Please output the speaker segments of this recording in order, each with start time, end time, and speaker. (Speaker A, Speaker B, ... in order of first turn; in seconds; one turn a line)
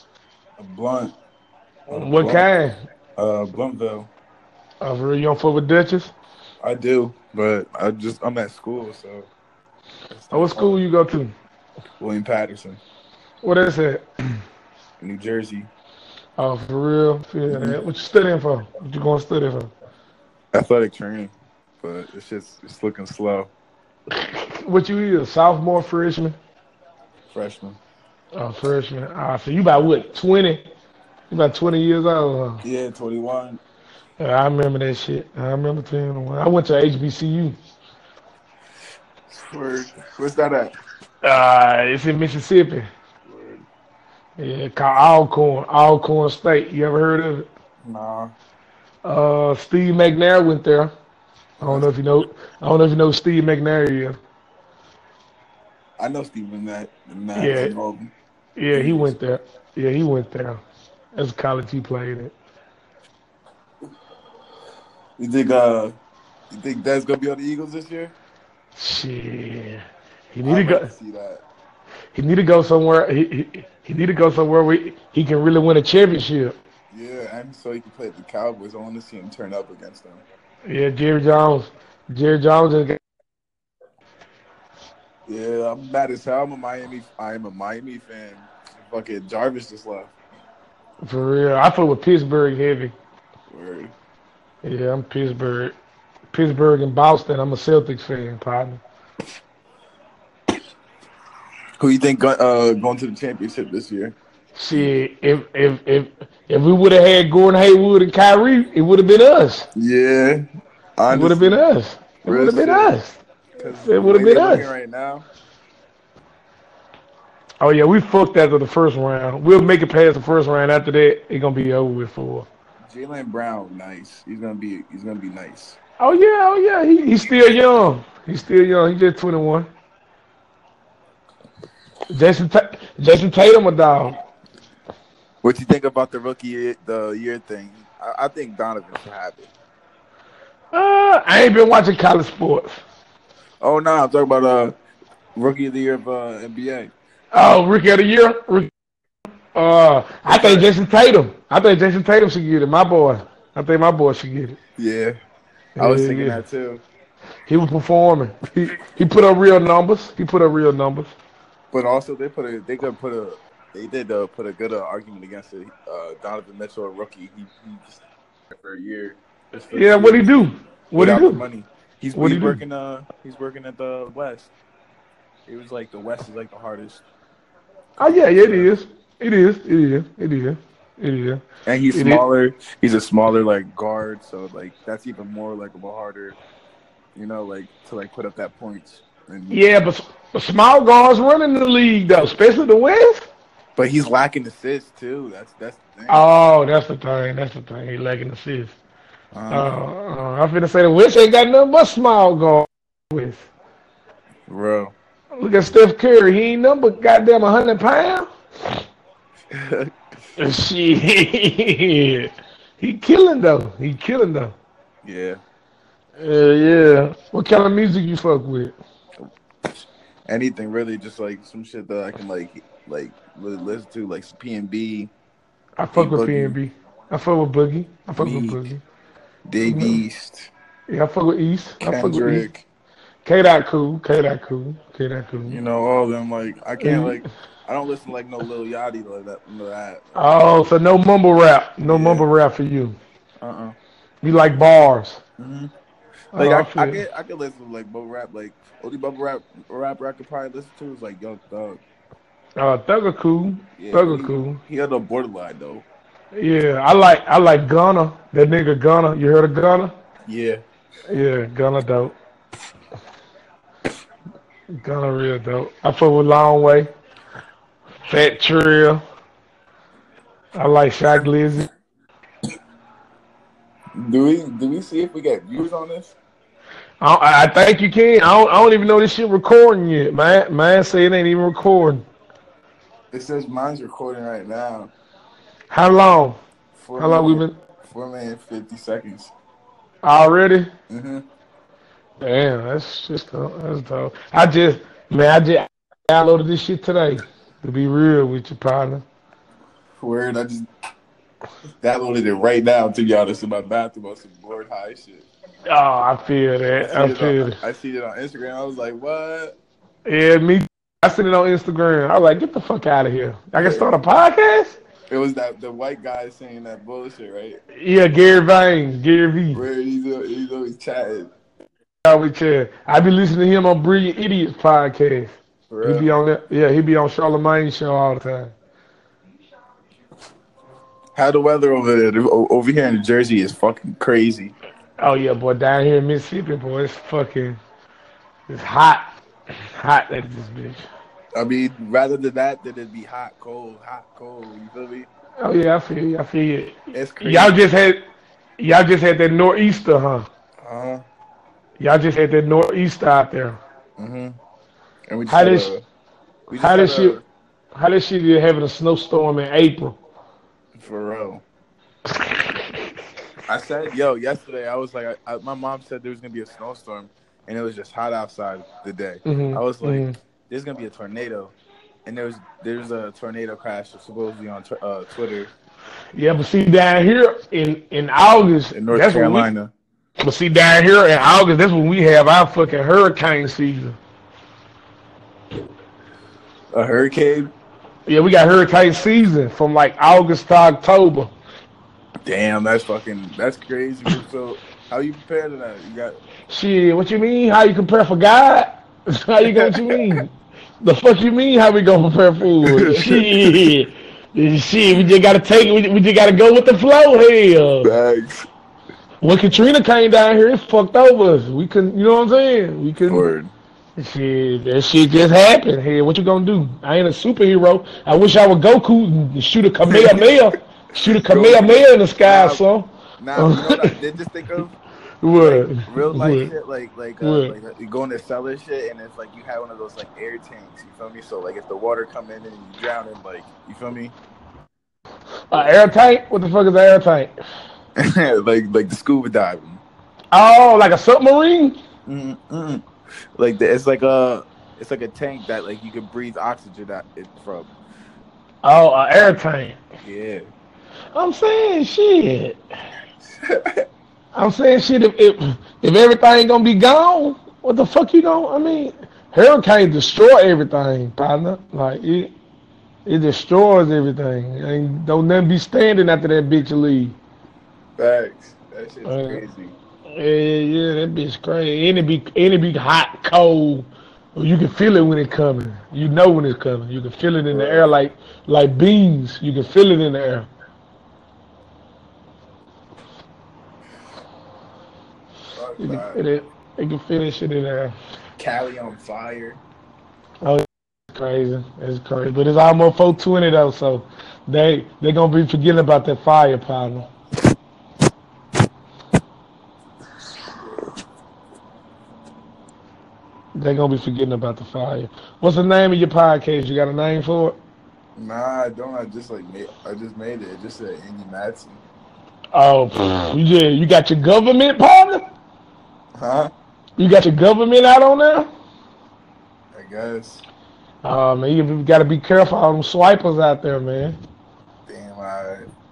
Speaker A: 0.6-1.1
Speaker A: 1.9-2.5
Speaker B: 1.9-2.7
Speaker A: 3.2-4.1
Speaker B: 4.8-6.1
Speaker A: 6.6-9.3
Speaker A: 10.1-10.8
Speaker B: 10.3-11.3
Speaker A: 12.0-12.8
Speaker B: 13.4-14.1
Speaker A: 15.0-15.7
Speaker B: 16.4-19.7
Speaker A: 17.5-17.8
Speaker A: 20.5-23.5
Speaker B: 24.1-26.3
Speaker A: 27.3-27.8
Speaker B: 28.3-30.7
Speaker B: 31.3-32.6
Speaker A: 32.6-33.6
Speaker B: 34.2-37.5
Speaker A: 39.3-40.7
Speaker B: 41.2-42.9
Speaker A: 43.3-43.6
Speaker B: 44.4-47.5
Speaker A: 47.8-48.3
Speaker B: 49.0-50.9
Speaker B: 51.6-54.2
Speaker A: 56.0-58.1
Speaker B: 57.3-57.8
Speaker B: 58.6-60.6
Speaker A: 58.7-59.1
Speaker B: 61.1-62.3
Speaker A: 65.2-65.9
Speaker A: 66.5-68.1
Speaker B: 68.8-69.8
Speaker B: 70.3-70.9
Speaker A: 70.4-71.4
Speaker B: 72.1-76.6
Speaker A: 76.9-80.2
Speaker B: 80.7-83.0
Speaker A: 85.3-90.2
Speaker B: 91.0-92.9
Speaker A: 93.5-93.9
Speaker B: 94.6-95.8
Speaker B: 96.3-98.8
Speaker A: 101.8-104.2
Speaker B: 104.5-109.7
Speaker A: 109.7-110.4
Speaker A: 111.0-111.6
Speaker B: 111.1-113.2
Speaker A: 112.2-113.0
Speaker A: 113.6-115.2
Speaker B: 113.8-114.7
Speaker B: 117.6-122.5
Speaker A: 122.9-125.8
Speaker B: 126.0-129.7
Speaker B: 132.1-134.2
Speaker A: 135.4-139.5
Speaker B: 140.7-142.8
Speaker A: 143.6-144.7
Speaker A: 145.3-146.9
Speaker B: 147.3-148.7
Speaker B: 149.5-154.6
Speaker A: 150.2-150.7
Speaker A: 154.8-155.1
Speaker B: 155.8-156.4
Speaker A: 155.8-156.8
Speaker B: 157.5-161.1
Speaker A: 161.7-170.3
Speaker B: 169.7-171.4
Speaker A: 170.9-174.5
Speaker B: 172.1-172.6
Speaker A: 175.5-177.0
Speaker A: 178.0-178.7
Speaker B: 178.0-182.2
Speaker A: 181.7-186.4
Speaker A: 187.1-189.7
Speaker B: 189.5-193.3
Speaker A: 193.8-196.3
Speaker B: 196.1-198.8
Speaker A: 199.3-199.7
Speaker B: 199.5-203.5
Speaker A: 204.5-204.9
Speaker B: 205.4-208.3
Speaker A: 209.5-209.9
Speaker B: 210.4-214.5
Speaker A: 215.0-215.4
Speaker B: 216.2-218.7
Speaker A: 220.3-225.1
Speaker B: 225.8-228.8
Speaker A: 225.9-226.6
Speaker A: 228.1-228.7
Speaker A: 229.5-230.5
Speaker B: 229.6-230.0
Speaker B: 230.9-232.5
Speaker A: 231.8-232.7
Speaker B: 233.2-235.6
Speaker A: 235.5-240.2
Speaker B: 236.8-237.2
Speaker B: 240.2-242.9
Speaker A: 241.9-242.3
Speaker A: 243.4-243.8
Speaker B: 244.2-245.2
Speaker A: 245.4-245.7
Speaker B: 246.3-247.0
Speaker A: 246.3-251.8
Speaker B: 252.6-254.6
Speaker A: 253.8-255.8
Speaker B: 256.3-259.9
Speaker A: 260.3-260.6
Speaker B: 261.1-262.1
Speaker B: 264.8-266.9
Speaker B: 268.1-269.0
Speaker B: 270.5-271.7
Speaker A: 273.9-276.1
Speaker B: 277.0-282.0
Speaker A: 283.1-284.9
Speaker B: 285.7-286.4
Speaker A: 286.7-289.3
Speaker B: 287.0-287.5
Speaker B: 290.0-290.7
Speaker A: 290.9-291.2
Speaker B: 292.2-299.0
Speaker A: 300.0-300.7
Speaker A: 301.8-305.3
Speaker B: 305.7-307.6
Speaker A: 306.8-309.6
Speaker B: 310.1-314.8
Speaker A: 313.6-313.9
Speaker A: 315.1-317.6
Speaker B: 317.8-319.6
Speaker A: 319.5-321.3
Speaker B: 322.0-328.5
Speaker A: 325.7-326.1
Speaker A: 331.1-334.6
Speaker B: 335.0-337.6
Speaker B: 338.5-339.1
Speaker B: 339.7-340.8
Speaker A: 341.3-345.1
Speaker B: 345.4-348.0
Speaker A: 346.9-347.6
Speaker B: 348.6-350.3
Speaker A: 350.6-351.0
Speaker B: 351.8-353.6
Speaker A: 354.0-354.4
Speaker A: 355.1-355.8
Speaker B: 355.3-355.7
Speaker A: 356.5-357.2
Speaker B: 356.6-357.2
Speaker B: 357.7-360.0
Speaker A: 360.8-361.4
Speaker B: 362.2-362.5
Speaker A: 363.5-371.5
Speaker B: 369.2-370.1
Speaker A: 372.1-375.5
Speaker B: 376.1-379.5
Speaker A: 378.7-379.7
Speaker B: 380.2-384.0
Speaker A: 386.7-387.5
Speaker B: 388.1-391.3
Speaker A: 392.2-396.1
Speaker B: 396.5-407.9
Speaker A: 399.4-400.0
Speaker A: 402.6-403.7
Speaker A: 407.8-408.5
Speaker B: 409.2-413.3
Speaker A: 413.1-413.5
Speaker B: 414.0-423.9
Speaker A: 419.9-422.6
Speaker A: 423.2-424.8
Speaker B: 425.2-426.5
Speaker A: 425.4-434.1
Speaker B: 427.2-427.5
Speaker B: 435.5-437.3
Speaker A: 438.0-439.8
Speaker B: 440.3-441.8
Speaker A: 442.1-442.8
Speaker A: 443.4-447.7
Speaker B: 448.6-449.8
Speaker A: 450.0-450.4
Speaker B: 451.1-452.6
Speaker A: 453.4-453.8
Speaker B: 454.3-462.3
Speaker B: 463.1-467.1
Speaker A: 468.0-469.8
Speaker B: 469.1-469.4
Speaker B: 470.1-480.5
Speaker A: 477.5-477.9
Speaker A: 485.5-486.2
Speaker B: 485.8-487.9
Speaker A: 488.4-489.6
Speaker B: 490.4-497.1
Speaker B: 503.6-507.6
Speaker A: 508.1-511.8
Speaker B: 512.5-515.2
Speaker A: 516.2-516.5
Speaker B: 517.0-518.5
Speaker A: 519.7-520.4
Speaker B: 521.0-524.2
Speaker A: 524.9-525.7